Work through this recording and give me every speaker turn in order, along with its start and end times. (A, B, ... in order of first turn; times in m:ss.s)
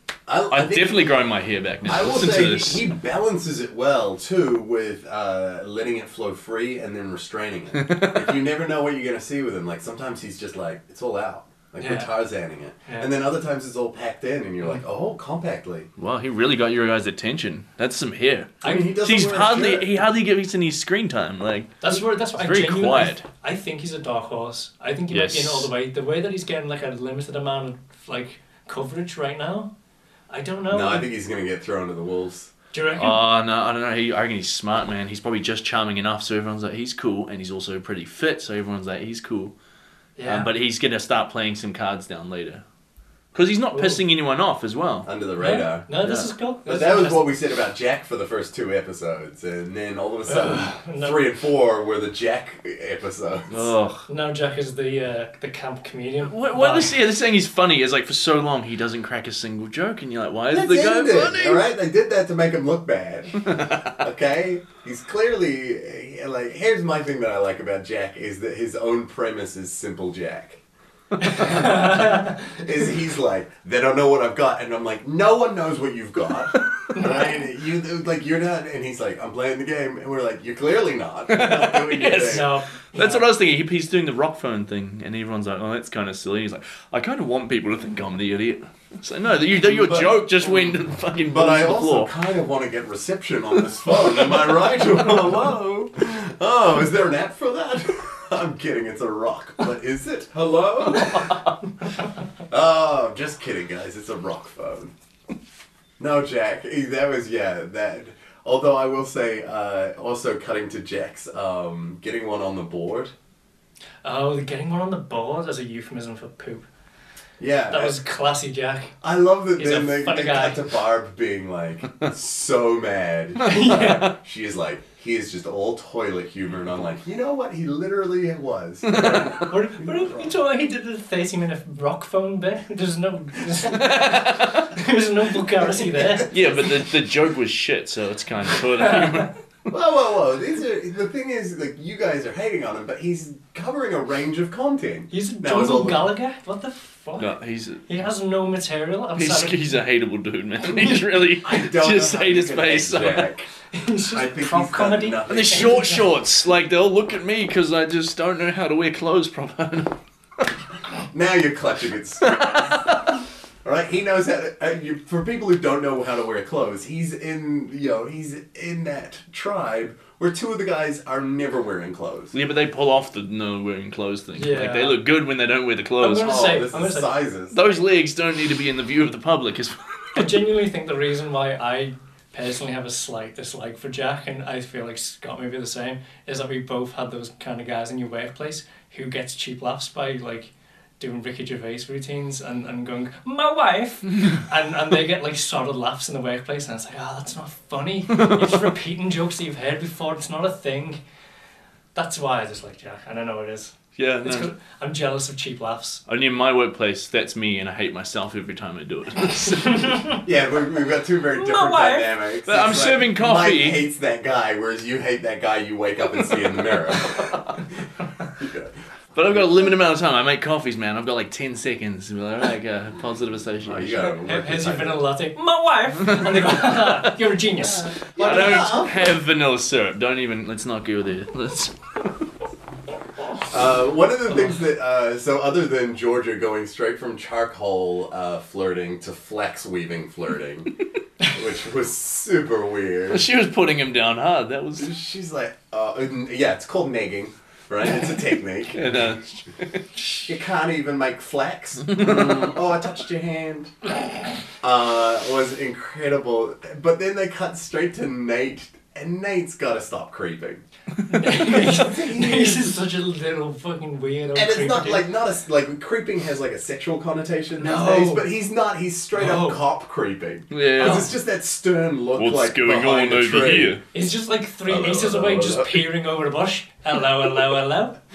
0:00.3-0:01.0 A
0:00.5-0:02.9 B
0:01.8-0:15.9 A
0:07.7-0:08.4 B
0:11.8-0:12.1 C
0:12.8-0:13.1 C
0:16.0-0:23.2 B
0:18.6-0:18.9 C
0:18.6-0:20.0 A
0:21.8-0:29.7 C
0:25.1-0:25.7 B
0:30.3-0:31.1 C
0:30.7-0:32.5 A
0:32.7-0:33.2 C
0:33.0-0:39.5 B
0:40.2-0:40.5 C
0:40.2-0:42.6 B
0:43.3-0:45.1 B
0:43.7-0:44.0 C
0:45.0-0:45.8 A
0:45.4-0:47.3 C
0:46.0-0:46.3 B
0:46.6-0:53.7 A
0:50.3-0:51.2 C
0:53.5-0:54.0 B
0:54.1-0:57.0 C
0:56.2-1:01.6 B
1:00.5-1:10.6 A
1:03.4-1:03.8 B
1:11.2-1:12.5 C
1:11.2-1:22.5 A
1:16.5-1:16.9 B
1:21.3-1:32.1 B
1:22.1-1:23.3 C
1:29.6-1:41.4 A
1:41.0-1:41.5 B
1:42.5-1:44.9 A
1:46.0-1:53.1 A
1:54.0-1:56.6 C
1:57.4-1:58.0 A
1:57.7-1:58.9 C
1:59.0-2:10.3 A
1:59.6-2:00.6 C
2:03.4-2:04.1 C
2:03.5-2:04.0 B
2:08.8-2:09.5 B
2:09.4-2:16.3 C
2:13.7-2:14.7 B
2:15.8-2:16.2 A
2:16.3-2:19.4 B
2:19.7-2:26.1 A
2:25.1-2:27.4 C
2:27.2-2:27.9 B
2:27.9-2:29.6 C
2:29.2-2:33.3 B
2:30.7-2:31.0 C
2:31.4-2:33.5 A
2:33.7-2:36.1 C
2:34.1-2:35.8 A
2:35.3-2:40.0 B
2:41.1-2:43.0 A
2:42.2-2:43.2 B
2:43.6-2:52.3 A
2:52.3-2:56.5 B
2:54.4-2:55.0 C
2:56.0-2:57.1 C
2:56.2-2:57.6 A
2:57.5-3:00.3 B
3:00.1-3:21.0 C
3:18.1-3:18.6 B
3:21.9-3:26.0 C
3:24.0-3:24.5 B
3:26.1-3:30.0 B
3:29.6-3:30.2 C
3:30.2-3:37.4 A
3:31.3-3:32.1 C
3:32.4-3:33.8 B
3:36.9-3:37.4 B
3:38.4-3:38.7 A
3:39.1-3:44.1 B
3:39.3-3:39.7 A
3:43.6-3:45.0 A
3:44.2-3:48.0 C
3:46.0-3:47.1 B
3:47.6-3:49.2 A
3:48.0-3:52.1 B
3:53.5-4:03.3 A
4:03.1-4:04.9 B
4:04.8-4:09.0 A
4:08.7-4:09.9 B
4:10.2-4:13.7 A
4:11.9-4:12.4 B
4:14.6-4:20.6 A
4:21.1-4:25.1 C
4:21.3-4:22.7 A
4:24.3-4:33.8 A
4:27.6-4:28.2 C
4:29.1-4:29.6 C
4:30.5-4:31.1 B
4:30.8-4:31.1 C
4:32.2-4:33.8 B
4:33.9-4:38.0 C
4:34.7-4:35.7 B
4:34.8-4:35.4 A